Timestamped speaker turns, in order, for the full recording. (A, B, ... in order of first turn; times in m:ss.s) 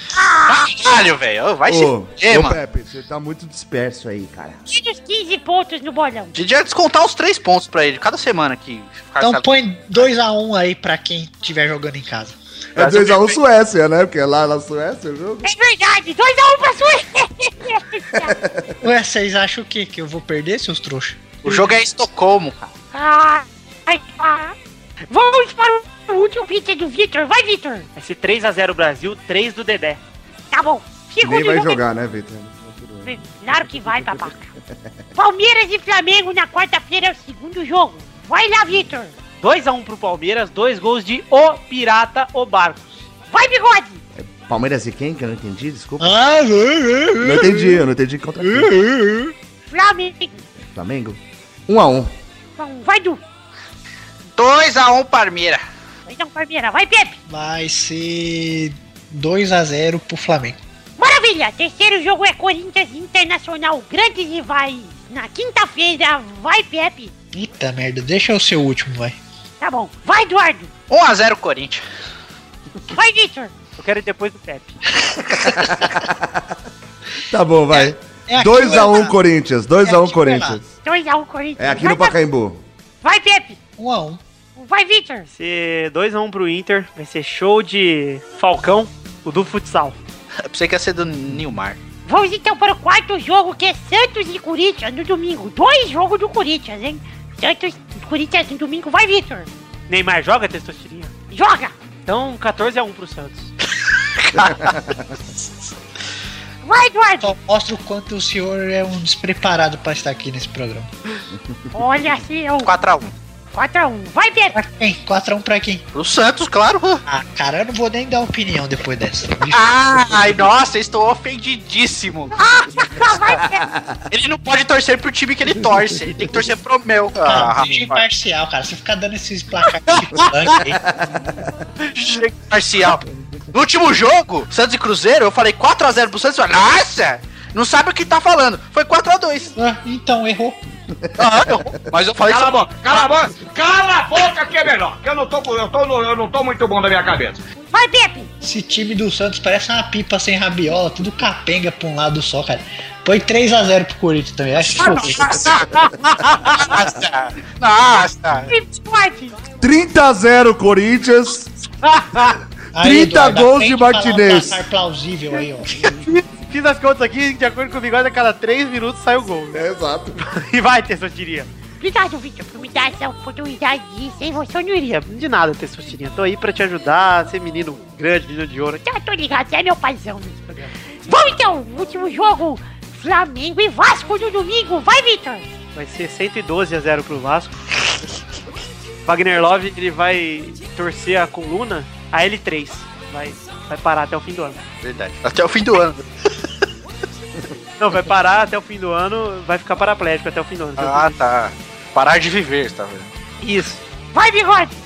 0:00.1-0:00.7 A
0:00.5-0:02.6 B
0:01.7-0:04.6 C
0:04.7-0:06.4 A
0:06.4-0:10.1 B
0:09.2-0:12.4 D
0:12.8-0:13.4 B
0:12.8-0:15.5 C
0:15.4-0:18.4 A
0:18.2-0:18.8 C
0:18.8-0:21.4 D
0:21.4-0:22.6 B
0:22.9-0:24.6 A
0:25.1-0:27.9 A
0:28.0-0:30.0 E
0:30.5-0:31.8 A
0:31.2-0:34.3 C
0:33.0-0:34.5 A
0:35.2-0:39.2 A
0:39.4-0:43.1 E
0:43.3-0:44.0 A
0:44.2-0:46.2 C
0:46.0-0:47.8 D
0:47.2-0:48.8 C
0:48.4-0:49.3 D
0:49.7-0:50.4 A
0:50.6-0:52.1 C
0:52.6-0:53.2 A
0:54.4-0:55.6 B
0:56.1-0:57.2 A
0:57.3-1:00.6 D
1:01.0-1:07.1 A
1:07.3-1:09.2 D
1:09.6-1:10.7 A
1:10.9-1:11.8 B
1:12.9-1:13.5 A
1:13.8-1:14.8 E
1:15.4-1:16.5 C
1:17.3-1:20.6 C
1:17.7-1:19.2 D
1:19.8-1:20.6 D
1:20.8-1:22.2 A
1:21.6-1:22.6 C
1:23.0-1:23.6 A
1:23.8-1:24.2 D
1:24.6-1:25.3 A
1:25.4-1:30.0 E
1:30.4-1:31.8 B
1:32.1-1:39.5 A
1:39.9-1:41.1 E
1:41.3-1:41.8 A
1:42.1-1:43.5 E
1:44.2-1:44.8 B
1:44.4-1:45.1 C
1:46.6-1:47.3 A
1:47.2-1:50.9 D
1:51.7-1:52.7 A
1:52.6-1:53.1 B
1:53.5-1:54.6 A
1:54.5-1:55.8 D
1:55.9-1:57.0 B
1:57.1-1:59.6 D
1:59.5-2:02.4 B
2:02.4-2:03.6 A
2:03.5-2:04.0 C
2:04.1-2:08.0 B
2:05.6-2:06.0 C
2:07.2-2:10.8 D
2:10.8-2:11.5 C
2:11.9-2:19.5 B
2:19.6-2:20.6 D
2:20.9-2:21.7 C
2:21.2-2:23.3 B
2:22.3-2:27.4 F
2:27.7-2:28.3 A
2:28.4-2:35.5 D
2:34.7-2:38.5 B
2:35.4-2:35.6 C
2:38.5-2:39.4 A
2:39.6-2:41.5 C
2:41.8-2:42.4 E
2:42.7-2:45.7 D
2:42.8-2:44.6 C
2:45.9-2:49.6 E
2:49.5-2:50.2 C
2:50.2-2:51.5 E
2:51.8-2:55.0 A
2:55.0-2:58.8 E
2:58.8-3:05.5 A
3:05.8-3:07.6 E
3:09.0-3:14.6 E
3:14.8-3:16.5 B
3:17.8-3:21.0 E
3:20.8-3:23.1 B
3:23.4-3:23.8 E
3:24.1-3:24.7 A